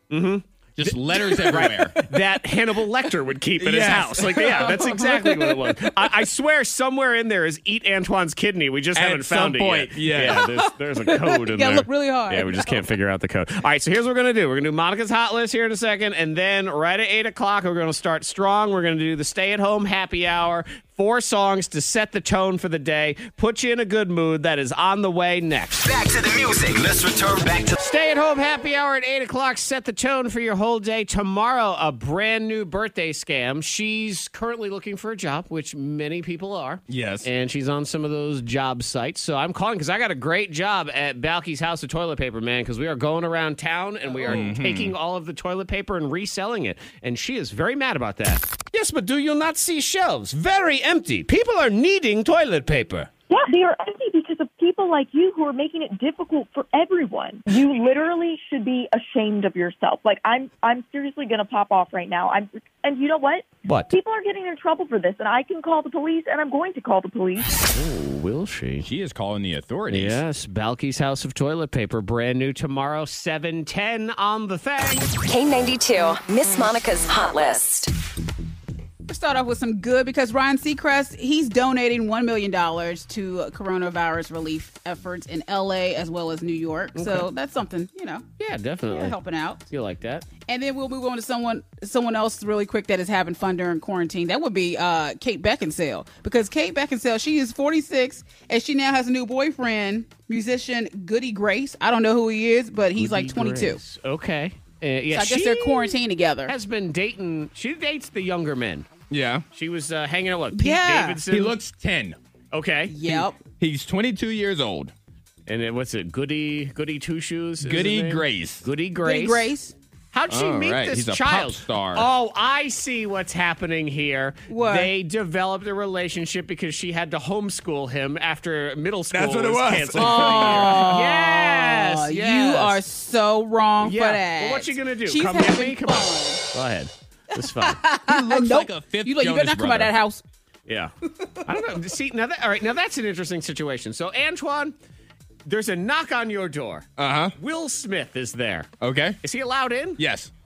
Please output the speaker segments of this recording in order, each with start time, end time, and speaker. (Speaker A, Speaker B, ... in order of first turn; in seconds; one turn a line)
Speaker A: 0.1-25.8
Speaker B: 0.8-2.1
Speaker B: 3.6-4.8
Speaker C: 4.4-6.1
Speaker B: 8.9-10.5
Speaker C: 10.3-12.9
Speaker D: 25.8-27.8
Speaker A: 27.8-53.1
Speaker B: 36.9-37.3
Speaker C: 44.1-44.4
Speaker B: 44.2-44.9
Speaker E: 53.3-67.6
Speaker A: 63.6-63.9
Speaker A: 67.7-68.9
Speaker B: 68.8-70.2
Speaker A: 69.9-75.1
Speaker F: 75.3-77.9
Speaker C: 79.1-88.2
Speaker A: 87.0-87.3
Speaker A: 88.4-89.2
Speaker C: 88.9-89.6
Speaker A: 89.7-90.3
Speaker C: 90.5-103.8
Speaker A: 102.9-108.9
Speaker C: 105.1-106.5
Speaker B: 109.1-109.4
Speaker A: 109.5-111.5
Speaker C: 110.5-111.2
Speaker B: 111.3-112.2
Speaker A: 112.5-113.2
Speaker C: 112.9-113.4
Speaker B: 113.6-114.9
Speaker A: 115.5-119.5
Speaker B: 117.6-118.6
Speaker C: 119.0-119.7
Speaker A: 120.1-132.8
Speaker B: 120.3-122.1
Speaker C: 124.5-124.9
Speaker B: 129.1-130.9
Speaker C: 129.9-136.5
Speaker A: 133.8-137.8
Speaker C: 137.4-140.2
Speaker B: 138.1-139.9
Speaker A: 140.7-140.9
Speaker A: 141.4-144.7
Speaker A: 145.4-148.7
Speaker B: 147.0-147.3
Speaker B: 148.8-149.2
Speaker A: 149.2-150.0
Speaker B: 150.0-150.3